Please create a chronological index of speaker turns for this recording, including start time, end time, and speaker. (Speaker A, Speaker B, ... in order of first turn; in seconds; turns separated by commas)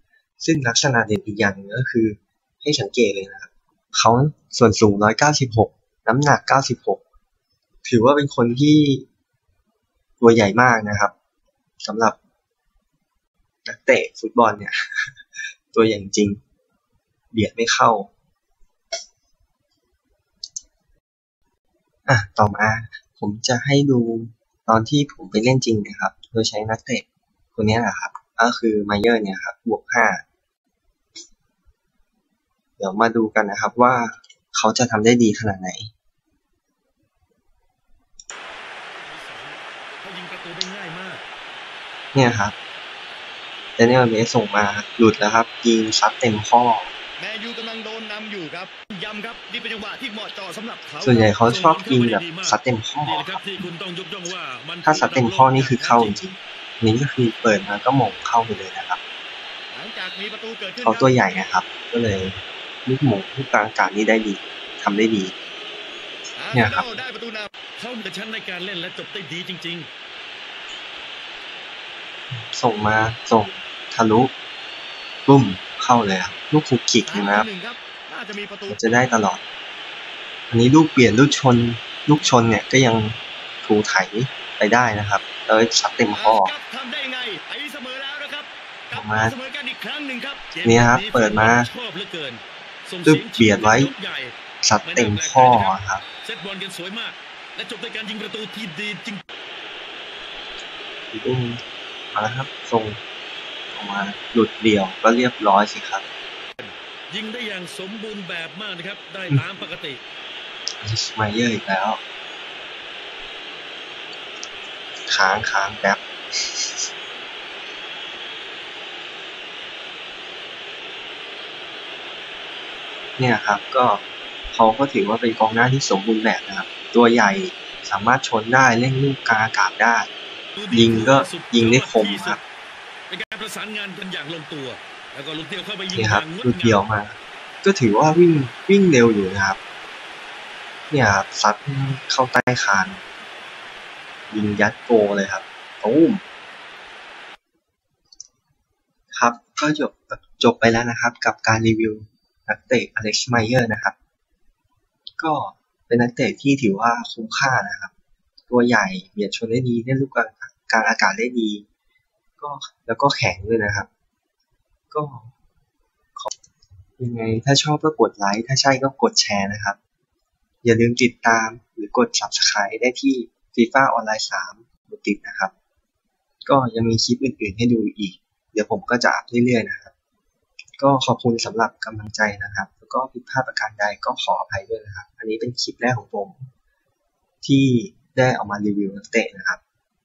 Speaker A: 0.4-7.0, Speaker A: 7.8-9.1, Speaker A: 10.2-11.1, Speaker A: 11.8-12.2, Speaker A: 13.6-15.2, Speaker A: 15.7-16.4, Speaker A: 17.3-18.1, Speaker A: 22.1-30.2, Speaker A: 32.8-35.9, Speaker B: 38.9-41.2, Speaker A: 42.1-42.5, Speaker A: 43.8-46.9, Speaker C: 47.2-50.7, Speaker B: 47.4-48.0, Speaker B: 48.6-56.2, Speaker A: 51.0-53.6, Speaker A: 54.8-59.0, Speaker C: 59.7-61.2, Speaker B: 59.8-60.8, Speaker A: 60.8-65.3, Speaker B: 66.4-69.9, Speaker A: 66.5-66.9, Speaker A: 72.3-74.3, Speaker A: 75.2-77.5, Speaker C: 77.1-78.8, Speaker B: 77.5-77.8, Speaker A: 78.7-79.4, Speaker A: 80.5-86.5, Speaker B: 86.1-86.9, Speaker C: 86.3-90.4, Speaker A: 88.9-89.3, Speaker B: 90.3-99.2, Speaker A: 90.6-91.7, Speaker A: 93.0-93.9, Speaker A: 94.6-96.0, Speaker A: 101.1-101.6, Speaker A: 102.1-103.0, Speaker A: 103.7-106.0, Speaker B: 106.6-110.0, Speaker A: 110.8-112.0, Speaker A: 115.1-116.8, Speaker A: 123.2-130.1, Speaker B: 130.6-132.4, Speaker A: 130.7-132.4, Speaker B: 133.1-136.8, Speaker A: 135.9-139.6, Speaker A: 140.9-143.0, Speaker A: 144.3-146.2, Speaker A: 149.1-153.9, Speaker A: 155.2-157.9, Speaker A: 158.5-161.6, Speaker A: 162.4-163.9, Speaker A: 164.9-165.3, Speaker A: 167.0-169.8, Speaker A: 170.6-175.5, Speaker A: 176.4-179.9, Speaker A: 180.8-186.5, Speaker A: 187.4-189.6